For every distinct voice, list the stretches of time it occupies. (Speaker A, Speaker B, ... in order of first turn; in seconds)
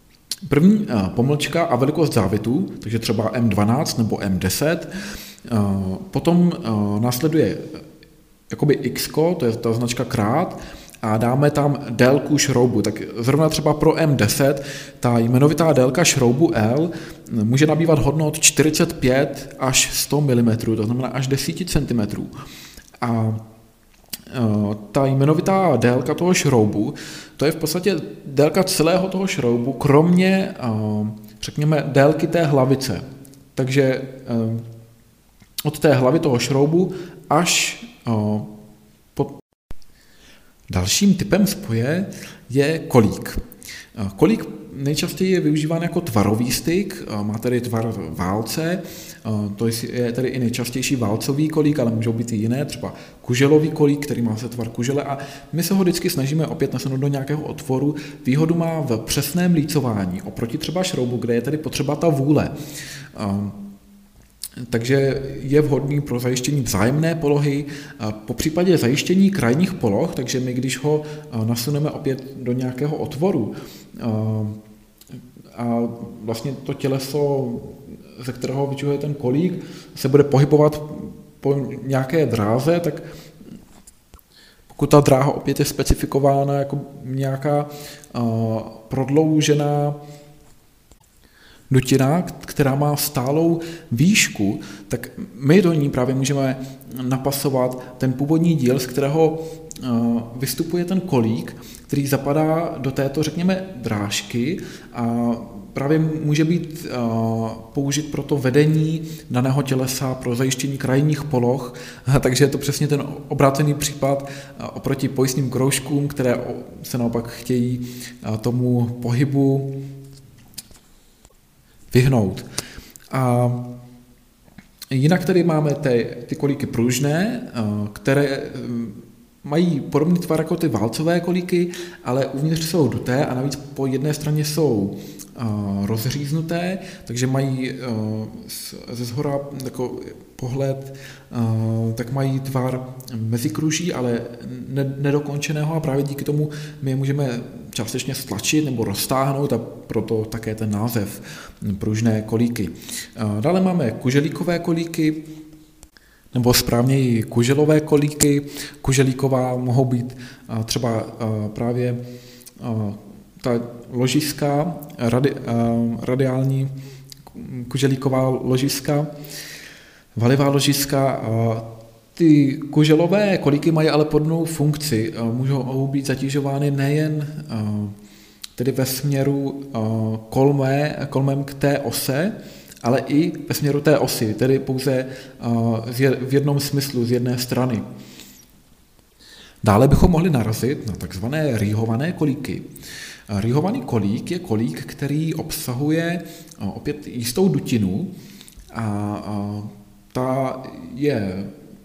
Speaker A: 0.4-4.9, 5.4-7.8, 8.5-22.3, 23.0-23.4, 24.3-33.0, 33.5-34.6, 35.6-38.5, 40.7-43.4, 44.0-62.5, 63.1-63.6, 64.7-74.6, 75.5-83.1, 84.7-90.0, 91.7-119.8, 121.9-122.5, 123.1-123.7, 124.9-155.2, 156.3-162.0, 162.6-166.7, 167.3-169.1, 170.2-177.9, 178.6-187.8, 189.6-192.7, 193.3-198.1, 198.7-201.5